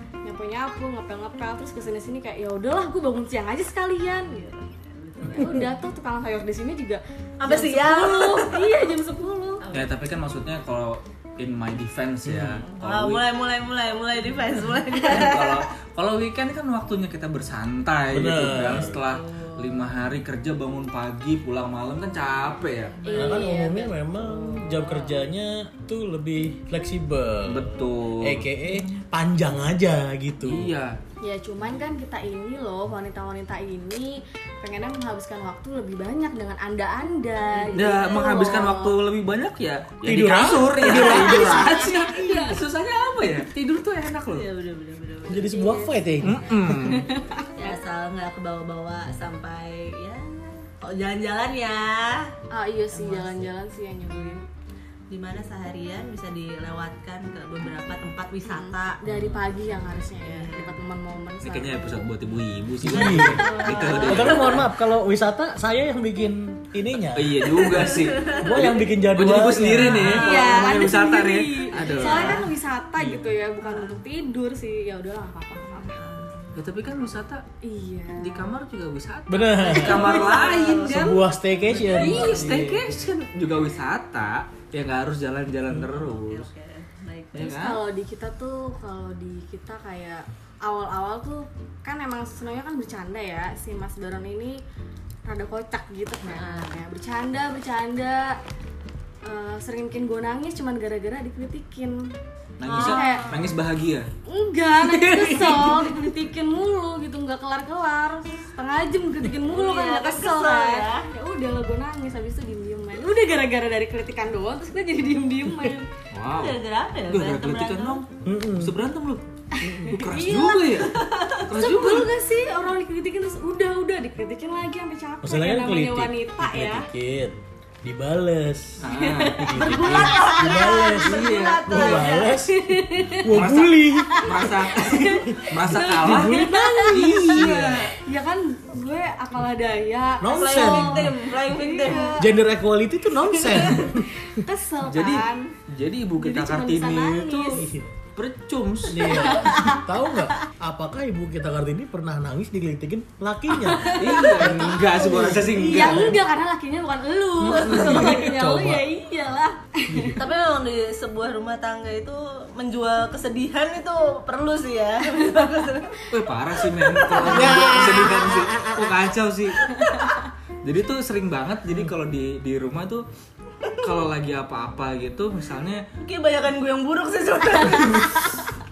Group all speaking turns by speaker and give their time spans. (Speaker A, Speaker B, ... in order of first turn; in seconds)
Speaker A: 0.2-9.6, 23.0-23.9, 31.2-38.9, 40.8-42.6, 45.5-47.8, 52.5-54.4, 58.4-62.1, 63.3-64.4, 70.0-76.0, 77.6-78.5, 79.7-80.6, 87.3-94.6, 95.2-98.4, 99.2-102.1, 102.7-103.3, 104.2-115.9, 119.5-120.7, 121.5-126.9, 128.9-130.5, 132.2-133.3, 133.9-137.5, 138.0-142.2, 143.3-145.5, 146.2-147.6, 149.0-149.8, 153.5-160.2, 167.1-167.8, 169.8-170.2
Speaker B: 5.1-5.6, 7.4-8.7, 9.6-9.9, 12.6-15.7, 18.8-20.0, 23.0-23.5, 24.5-24.9, 37.5-38.0, 40.9-42.0, 44.3-45.7, 47.3-52.3, 52.9-53.5, 55.1-59.0, 60.2-60.8, 62.9-64.6, 67.5-68.5, 69.9-70.7, 71.7-72.5, 73.6-74.0, 75.9-76.5, 79.8-82.7, 86.0-87.5, 96.2-96.8, 102.6-103.5, 109.4-111.1, 116.3-118.0, 120.7-121.4, 129.6-132.4, 140.3-142.3, 160.2-166.1, 166.8-168.9, 169.7-170.0, 176.0-178.4
Speaker C: 9.7-13.2, 14.9-23.0, 27.4-28.4, 30.4-30.9, 37.7-44.5, 46.2-47.1, 61.4-64.7, 67.1-72.5, 76.5-77.4, 78.2-81.2, 81.8-86.5, 87.3-87.8, 102.6-104.1, 104.8-105.9, 116.1-122.1, 128.8-129.6, 131.0-132.1, 133.3-138.0, 144.8-149.3, 153.9-156.1, 157.8-158.1, 166.1-169.8, 170.6-173.0, 173.8-175.8, 177.7-178.0
Speaker D: 12.2-12.6, 18.1-19.0, 23.1-30.7, 40.0-41.6, 45.3-46.9, 59.1-59.4, 62.8-63.5, 64.1-67.9, 68.4-70.3, 79.3-80.2, 80.8-82.9, 85.7-86.1, 118.2-118.8, 125.2-134.2, 135.3-137.9, 140.2-141.2, 142.2-144.1, 147.5-147.9, 148.9-156.2, 157.4-158.9, 159.9-160.2